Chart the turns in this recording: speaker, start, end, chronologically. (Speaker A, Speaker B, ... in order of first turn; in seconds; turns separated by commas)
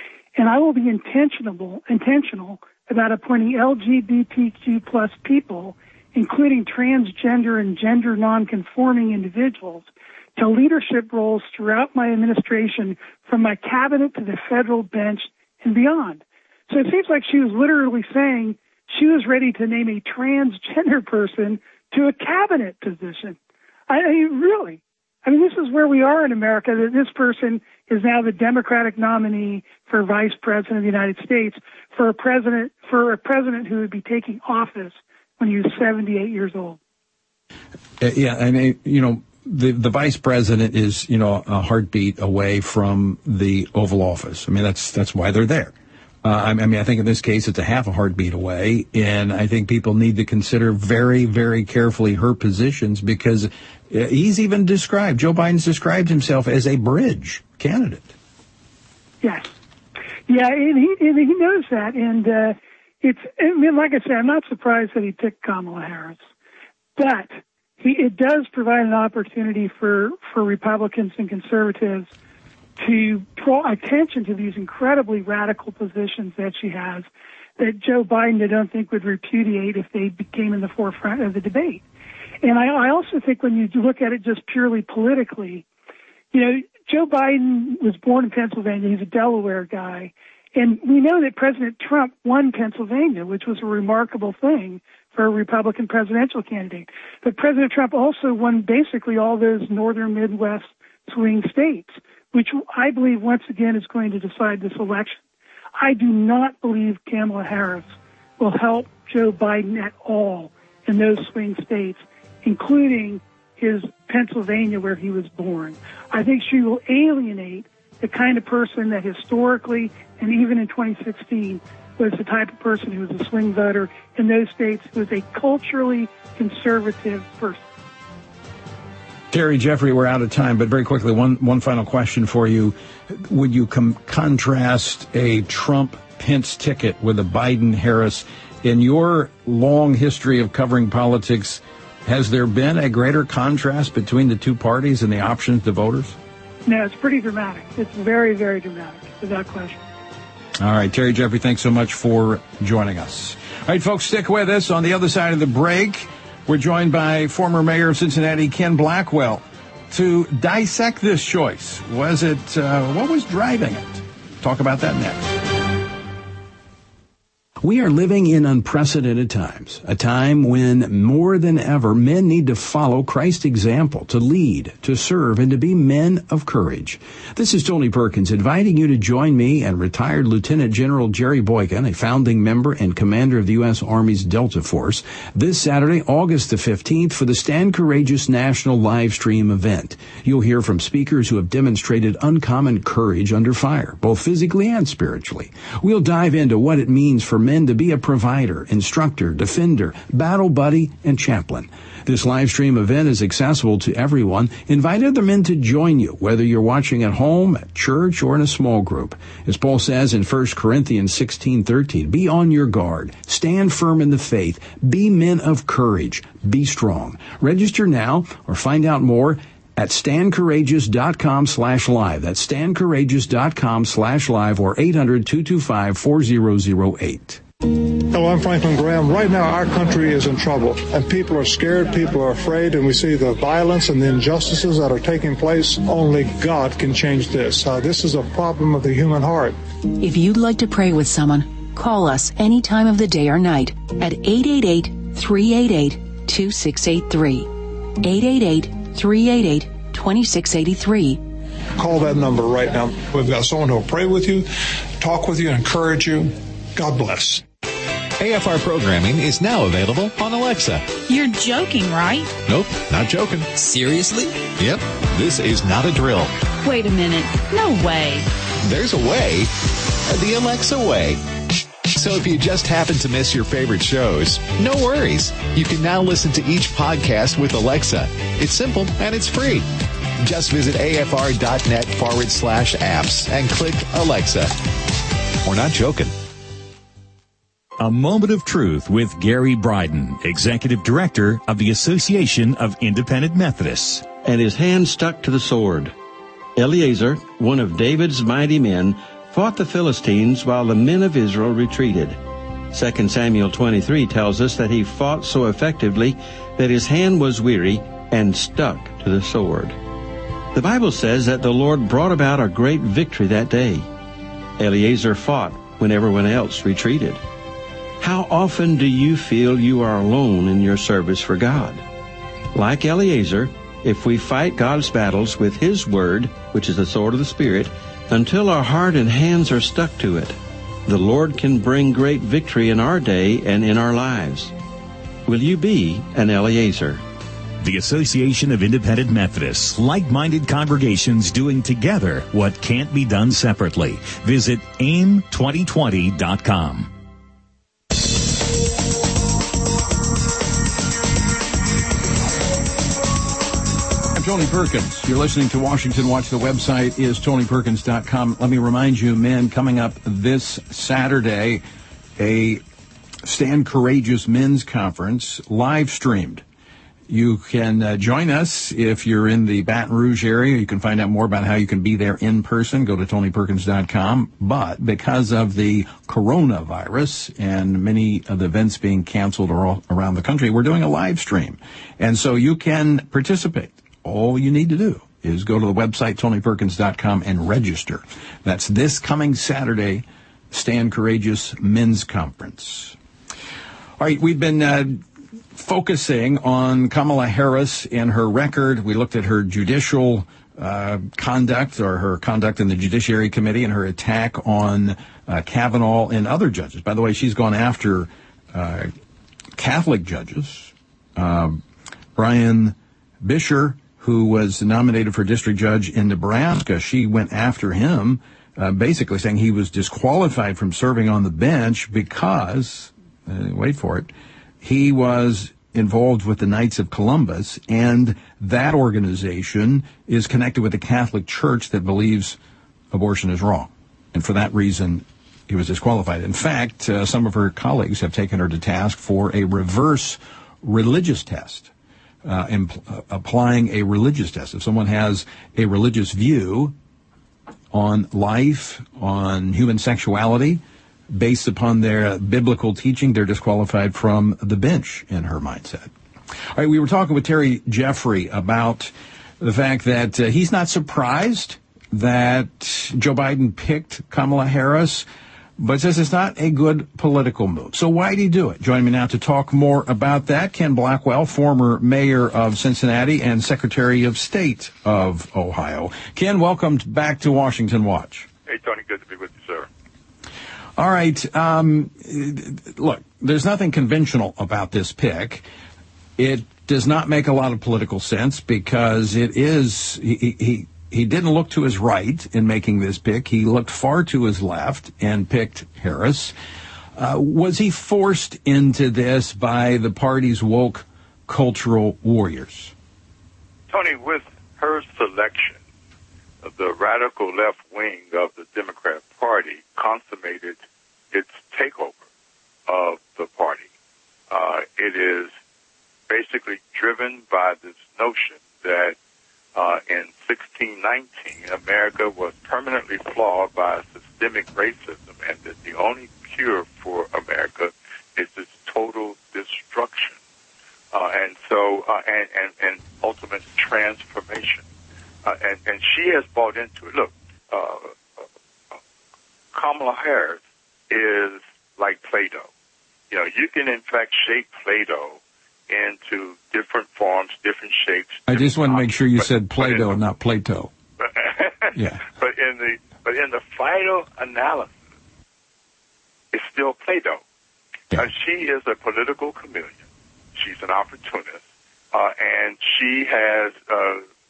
Speaker A: 0.4-23.4, Speaker A: 23.9-36.8, Speaker B: 38.0-58.1, Speaker A: 59.2-59.5, Speaker A: 60.3-66.2, Speaker A: 67.0-72.1, Speaker A: 72.8-81.8, Speaker A: 82.4-85.7, Speaker A: 86.3-105.2, Speaker A: 105.8-127.6, Speaker B: 129.3-146.2, Speaker A: 146.7-149.8, Speaker B: 150.6-165.4, Speaker B: 167.6-227.4, Speaker C: 227.9-239.6, Speaker D: 239.9-251.2, Speaker C: 251.8-254.5, Speaker C: 255.0-257.4, Speaker E: 258.2-261.0, Speaker F: 261.1-262.4, Speaker E: 262.5-266.3, Speaker F: 266.6-268.3, Speaker E: 268.6-269.5, Speaker E: 270.1-271.2, Speaker E: 271.9-279.7, Speaker E: 280.2-284.5, Speaker E: 285.4-286.1, Speaker G: 287.8-294.1, Speaker H: 294.2-295.9, Speaker H: 296.6-302.2, Speaker H: 302.7-309.8, Speaker H: 310.5-313.9, Speaker H: 314.6-317.2, Speaker H: 318.0-321.8, Speaker H: 322.5-334.5, Speaker H: 335.3-337.0, Speaker G: 337.6-346.9, Speaker B: 354.1-361.6, Speaker B: 362.2-362.6, Speaker B: 363.2-366.4, Speaker B: 367.1-393.0, Speaker B: 394.0-395.0, Speaker B: 395.6-408.9, Speaker B: 409.6-411.6, Speaker B: 412.2-432.4, Speaker B: 432.9-441.7, Speaker B: 442.2-446.7, Speaker B: 447.7-455.9, Speaker B: 456.6-465.1, Speaker B: 465.6-478.3, Speaker I: 478.5-479.7, Speaker B: 480.8-485.4, Speaker B: 486.2-496.3, Speaker B: 497.0-502.7, Speaker I: 503.7-505.6, Speaker I: 506.4-510.6, Speaker I: 511.1-512.0, Speaker I: 512.7-513.7, Speaker I: 514.3-515.3, Speaker I: 516.1-519.0, Speaker I: 519.5-530.2, Speaker I: 530.9-534.6, Speaker I: 535.2-538.0, Speaker I: 539.5-542.5, Speaker I: 543.1-549.9, Speaker B: 548.3-550.7, Speaker I: 551.0-554.8, Speaker B: 551.8-552.0, Speaker I: 556.3-557.2, Speaker I: 558.0-559.8, Speaker I: 560.4-561.4, Speaker I: 561.9-564.0